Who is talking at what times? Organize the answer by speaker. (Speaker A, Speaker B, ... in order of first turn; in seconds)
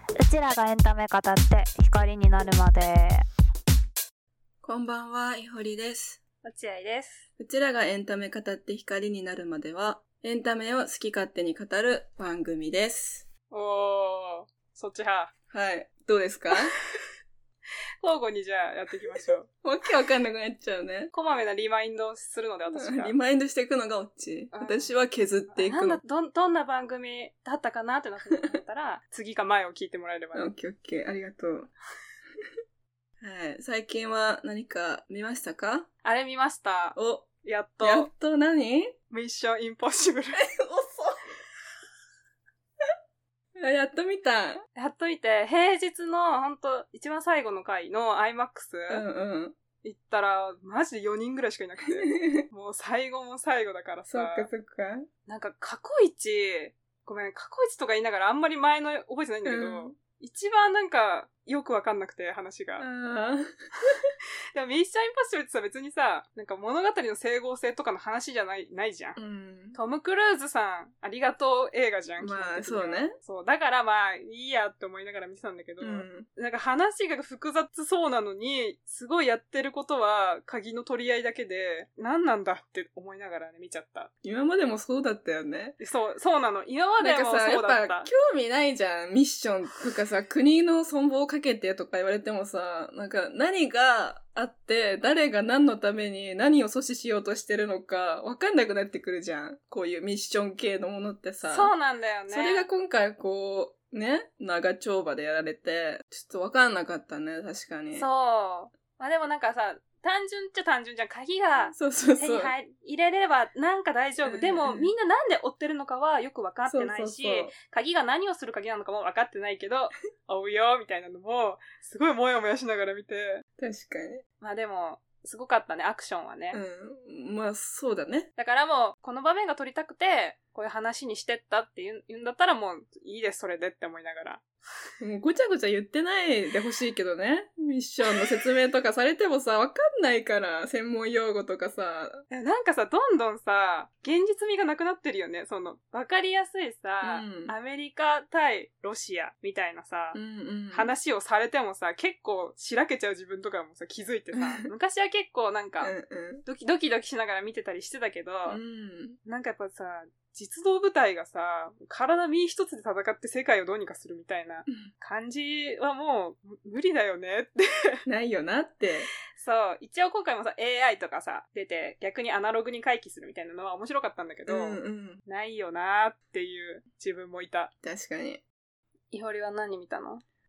Speaker A: 0.7-2.9
Speaker B: 4.6-6.2, 7.4-13.2, 15.5-16.7, 19.5-21.1, 22.7-26.0, 30.3-31.7, 33.2-35.9, 37.0-37.3, 37.8-38.9, 40.4-41.2, 43.6-44.6, 48.9-49.5, 51.8-52.4, 54.1-55.1, 59.4-59.9, 62.8-64.1, 69.2-69.8, 72.2-73.2, 75.8-76.3, 84.2-85.8, 87.0-101.7, 102.3-108.1, 111.6-112.5, 114.2-114.9, 116.7-117.5, 123.6-124.2, 126.5-128.3, 135.0-142.2, 147.0-147.5, 150.1-150.9, 154.3-154.6, 155.8-156.4, 158.5-159.2, 168.1-169.1, 174.5-175.2, 177.8-178.4
Speaker C: 6.4-7.2, 13.5-15.3, 18.0-19.5, 21.1-23.1, 24.5-25.0, 25.5-30.5, 36.0-38.1, 39.1-40.4, 44.7-49.0, 49.8-54.5, 55.3-62.9, 64.5-69.2, 69.7-84.1, 85.8-88.1, 101.5-102.7, 107.9-123.4, 124.4-126.6, 128.3-134.4, 142.3-150.2, 150.7-158.6, 159.2-168.0, 169.3-177.7, 179.1-180.2